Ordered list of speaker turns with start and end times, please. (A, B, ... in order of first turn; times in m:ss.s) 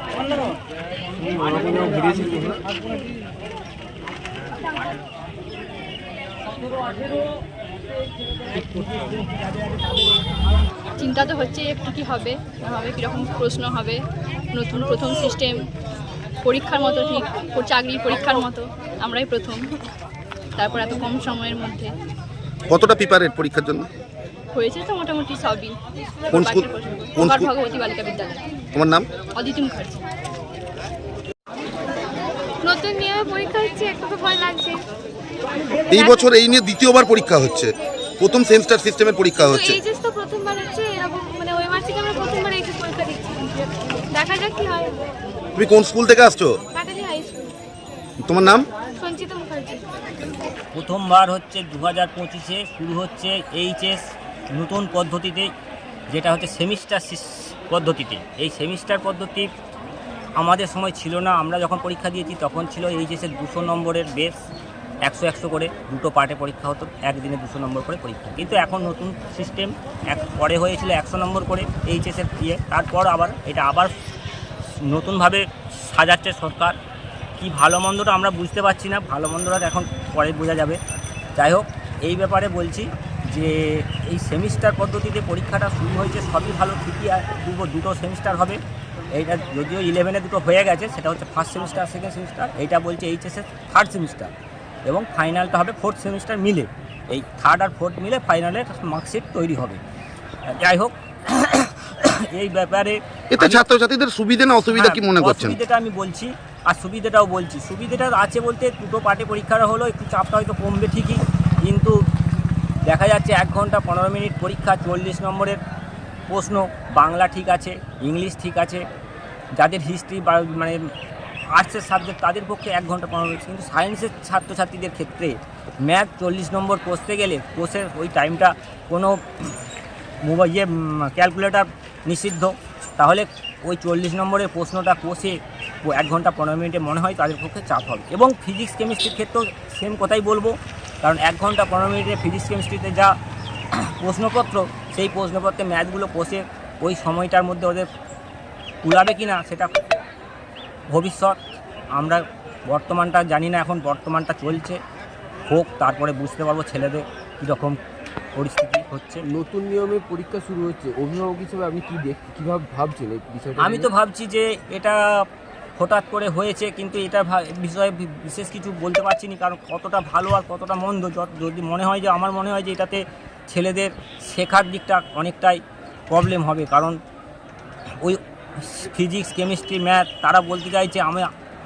0:02.0-0:02.4 A
0:11.0-0:15.7 B
0:16.4-0:19.8 B
0:20.6-0:21.9 B
0:22.7-0:23.9 C
0:24.5-0:28.4 B
0:26.3-0:27.5 C
0:28.7-0:29.1 C
0:29.4-0:30.0 B
0:32.6-0:34.8 D
0:35.9-0:39.8 C
0:39.4-0:45.0 D
0:45.6-0:46.5 C
0:46.7-0:47.5 D
0:48.2-0:48.7 C
0:48.9-0:49.8 D
0:50.7-0:55.5 E
0:56.1-0:59.5 E
1:00.4-1:04.3 E
1:05.0-1:13.9 E
1:14.8-1:16.8 E
1:17.4-1:20.8 E
1:21.4-1:28.6 E
1:29.1-1:34.3 E
1:34.8-1:39.8 E
1:40.4-1:43.6 E
1:43.3-1:45.6 C
1:44.7-1:52.0 E
1:52.8-1:55.6 E
1:56.3-1:58.8 E
1:59.6-2:00.8 E
2:01.5-2:09.6 E
2:10.2-2:23.1 E
2:23.8-2:27.9 E
2:28.8-2:29.7 E
2:30.9-2:31.4 E
2:32.0-2:34.8 E
2:35.5-2:37.8 E
2:38.3-2:39.2 E
2:39.2-2:43.9 A
2:43.6-2:45.0 E
2:45.8-2:57.0 E
2:58.0-3:01.3 E